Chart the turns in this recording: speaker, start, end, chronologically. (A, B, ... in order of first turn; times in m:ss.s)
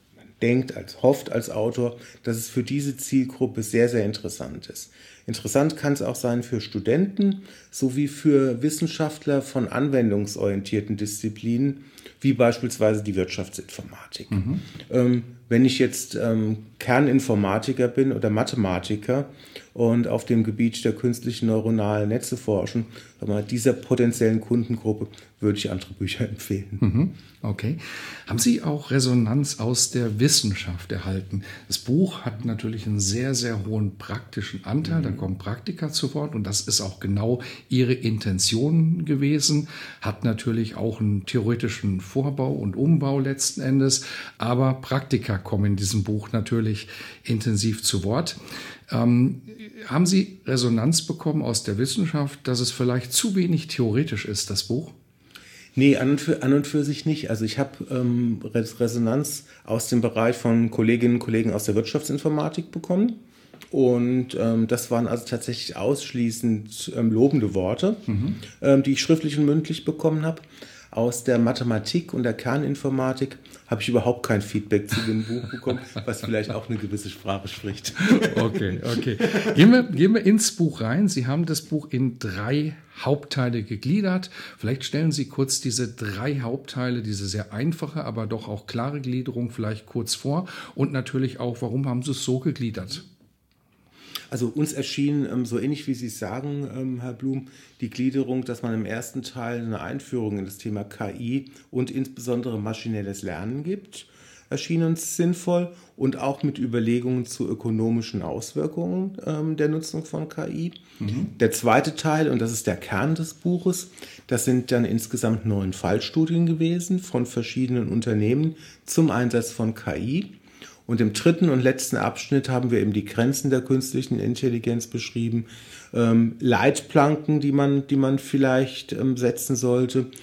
0:00.4-0:26.8 A
0:14.3-0:14.6 B
0:26.8-0:48.4 B
0:34.8-0:35.2 A
0:48.9-0:54.9 B
0:55.7-1:03.2 A
1:03.7-1:19.6 A
1:08.1-1:08.4 B
1:18.0-1:33.0 B
1:34.3-1:50.8 A
1:51.0-1:51.3 B
1:51.3-2:00.3 A
2:00.8-2:10.1 A